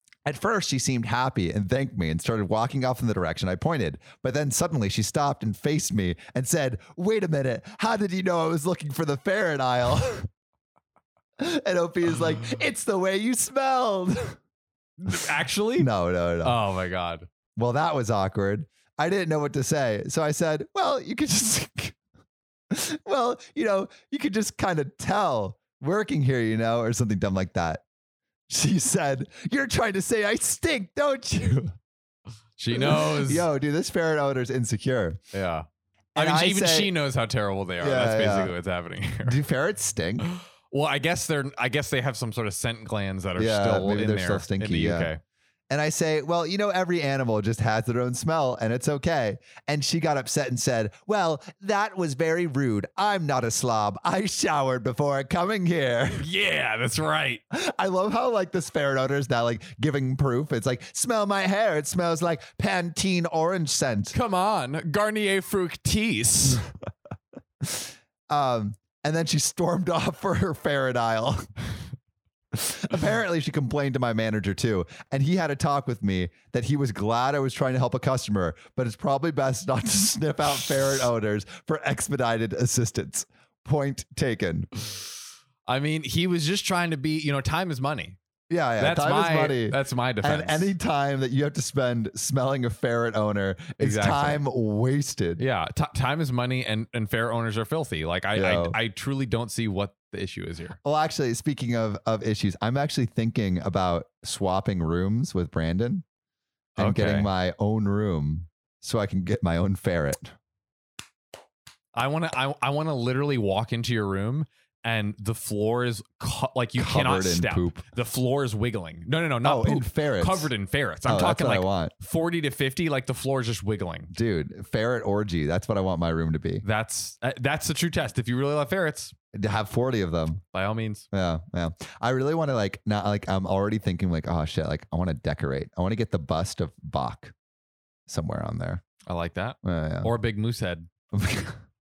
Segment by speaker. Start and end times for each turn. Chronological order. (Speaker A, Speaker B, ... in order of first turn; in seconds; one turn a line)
Speaker A: 0.2-10.3
Speaker A: 11.4-14.4
Speaker B: 15.0-15.9
Speaker A: 15.8-16.6
Speaker B: 16.4-17.3
Speaker A: 17.6-21.9
Speaker A: 22.7-27.8
Speaker A: 28.5-31.7
Speaker B: 32.6-33.5
Speaker A: 32.7-35.2
Speaker B: 35.3-39.4
Speaker A: 36.1-36.9
Speaker A: 37.8-38.5
Speaker A: 39.2-40.3
Speaker B: 40.2-45.2
Speaker A: 43.4-45.1
Speaker A: 45.7-56.3
Speaker B: 56.2-57.4
Speaker A: 57.5-64.1
Speaker B: 64.1-66.6
Speaker A: 68.3-71.4
Speaker A: 72.5-84.7
Speaker B: 85.7-88.2
Speaker A: 88.5-95.4
Speaker B: 88.8-90.7
Speaker B: 93.8-94.4
Speaker B: 95.4-100.8
Speaker A: 98.3-98.8
Speaker A: 100.8-106.0
Speaker B: 106.8-107.3
Speaker A: 106.8-110.3
Speaker B: 111.9-124.1
Speaker A: 116.8-117.8
Speaker A: 119.4-120.5
Speaker A: 121.0-121.9
Speaker A: 124.1-126.6
Speaker B: 126.6-129.1
Speaker A: 129.3-130.4
Speaker B: 130.5-131.1
Speaker A: 131.1-137.3
Speaker A: 138.1-138.8
Speaker B: 139.1-140.9
Speaker A: 139.6-140.1
Speaker A: 141.1-141.6